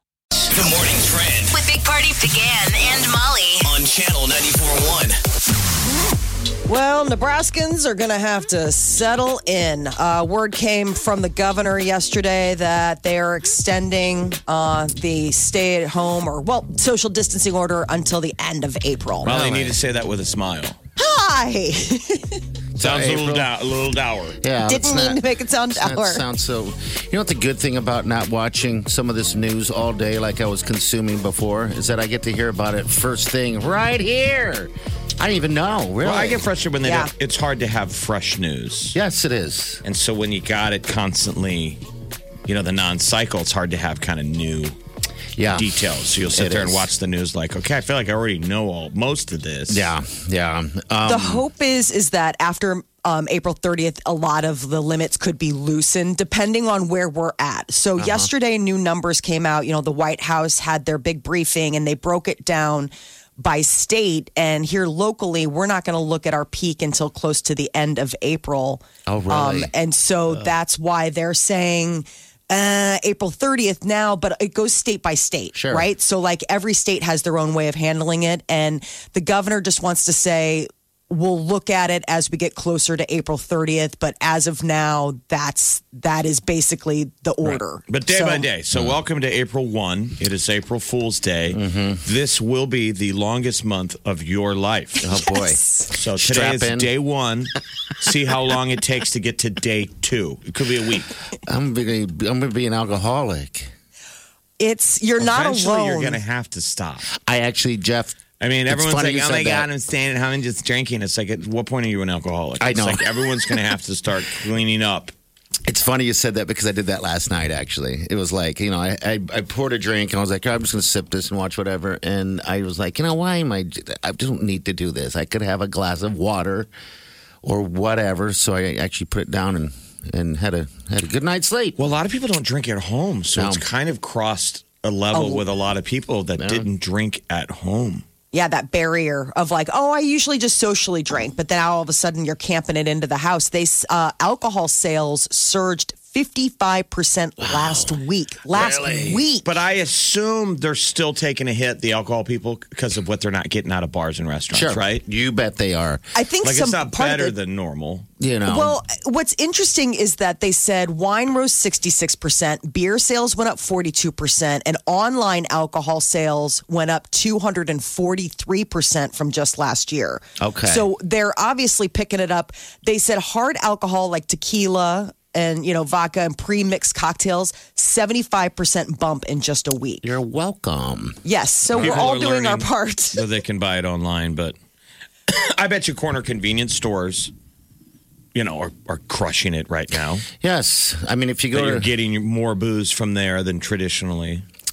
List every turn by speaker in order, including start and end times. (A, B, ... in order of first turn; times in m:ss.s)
0:00.5-0:01.5 A
0:01.5-0:03.7 B
0:03.6-0:05.2 A
0:06.7-0:19.3 C
0:19.2-0:20.8 D
0:19.2-0:19.8 E
0:21.0-0:22.4 C
0:22.8-0:23.5 E
0:22.8-0:24.4 D
0:24.4-0:36.5 E
0:24.6-0:26.2 C
0:36.0-0:39.0 D
0:36.8-0:37.1 C
0:38.9-0:39.8 E
0:39.8-0:41.8 D
0:42.5-0:44.8 D
0:45.4-0:46.9 E
0:45.5-0:49.9 D
0:49.7-0:51.4 E
0:51.1-1:28.5 C
0:58.0-0:58.3 E
1:09.1-1:09.7 E
1:15.5-1:15.9 E
1:27.5-1:35.1 D
1:31.5-1:32.0 E
1:35.0-1:36.9 E
1:35.3-1:35.8 C
1:35.9-1:41.1 D
1:41.5-1:43.7 E
1:44.6-1:46.2 C
1:45.2-1:47.1 D
1:47.1-1:49.7 E
1:48.4-1:55.1 D
1:52.6-1:53.5 E
1:55.7-2:06.7 E
2:07.4-2:11.8 E
2:11.8-2:18.0 D
2:13.4-2:13.6 E
2:15.1-2:15.4 C
2:16.4-2:16.7 E
2:18.3-2:29.5 C
2:27.4-2:28.0 E
2:28.5-2:29.2 E
2:29.4-2:35.0 D
2:34.5-2:36.0 E
2:36.2-2:37.3 C
2:36.4-2:38.1 D
2:38.2-2:38.8 E
2:38.5-3:00.1 C
2:50.4-2:50.9 E
3:00.0-3:01.2 E
3:01.2-3:03.2 C
3:01.8-3:04.6 D
3:05.3-3:07.3 D
3:08.4-3:10.3 D
3:10.3-3:11.9 E
3:11.5-3:14.4 D